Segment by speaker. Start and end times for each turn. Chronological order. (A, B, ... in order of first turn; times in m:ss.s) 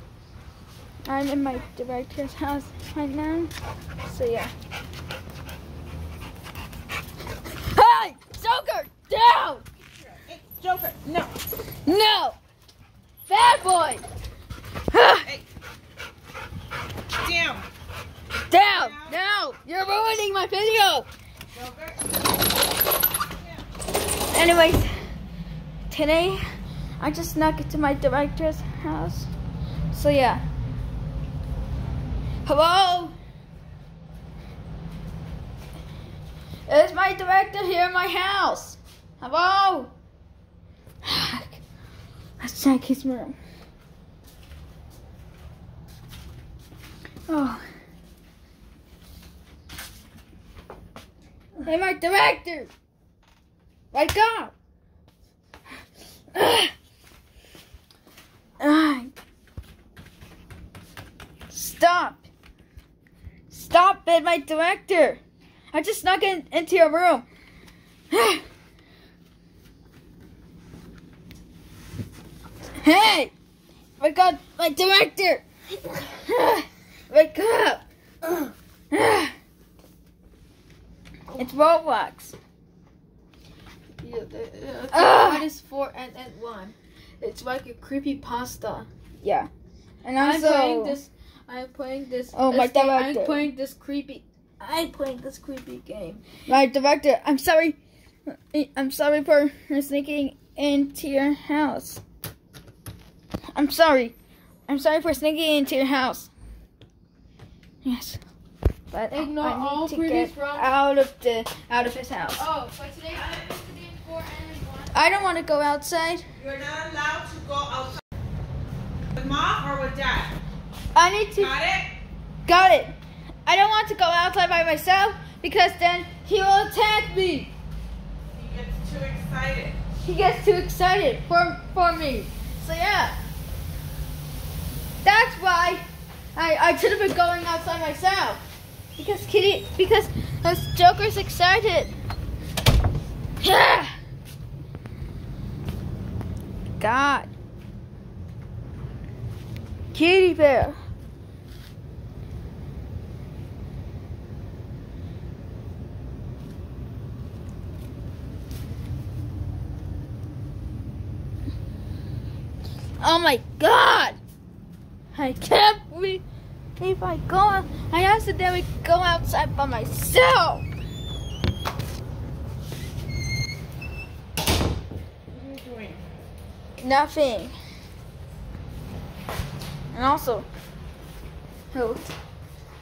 0:01.1-0:03.5 A
0:04.0-0:04.5 A
0:07.5-0:09.6 A
0:10.1-0:11.2 B
0:11.8-0:12.4 A
0:13.3-0:14.0 A
0:14.9-0:15.3 A
0:17.2-0:17.7 B
0:18.5-0:21.1 A
0:18.7-0:19.1 B
0:21.5-0:22.1 B
0:24.3-0:24.9 A
0:25.9-0:26.4 A
0:27.0-0:29.3 A
0:29.9-0:30.4 A
0:32.4-0:33.1 A
0:36.7-0:39.9 A
0:41.0-0:41.6 A
0:42.4-0:43.4 A
0:47.3-0:47.6 A
0:51.6-0:52.7 A
0:53.9-0:54.5 A
0:56.3-0:56.7 A
0:58.6-0:59.1 A
1:01.5-1:02.2 A
1:03.5-1:05.2 A
1:05.7-1:07.2 A
1:08.1-1:08.4 A
1:12.8-1:13.3 A
1:14.0-1:15.4 A
1:15.9-1:17.8 A
1:18.9-1:19.3 A
1:21.4-1:22.3 A
1:24.0-1:28.9 C
1:24.9-1:25.4 A
1:29.2-1:29.5 A
1:30.0-1:31.0 A
1:30.2-1:36.2 C
1:32.3-1:33.5 A
1:36.5-1:42.0 A
1:43.5-1:44.1 A
1:44.7-1:46.3 A
1:47.8-1:48.2 A
1:48.9-1:52.4 A
1:49.1-1:50.7 C
1:52.4-1:55.0 C
1:54.9-1:56.2 A
1:56.4-1:58.0 B
1:59.1-2:00.3 B
2:00.9-2:01.5 A
2:01.4-2:01.9 B
2:02.4-2:07.5 A
2:08.3-2:09.8 B
2:10.0-2:13.2 A
2:15.0-2:15.8 A
2:16.4-2:18.4 A
2:19.0-2:21.9 A
2:23.4-2:24.0 A
2:26.8-2:27.3 A
2:29.9-2:30.8 A
2:43.0-2:44.2 A
2:45.1-2:46.2 A
2:46.8-2:50.6 A
2:55.3-2:56.0 B
2:56.8-2:57.5 A
2:59.9-3:00.5 A
3:01.7-3:02.1 A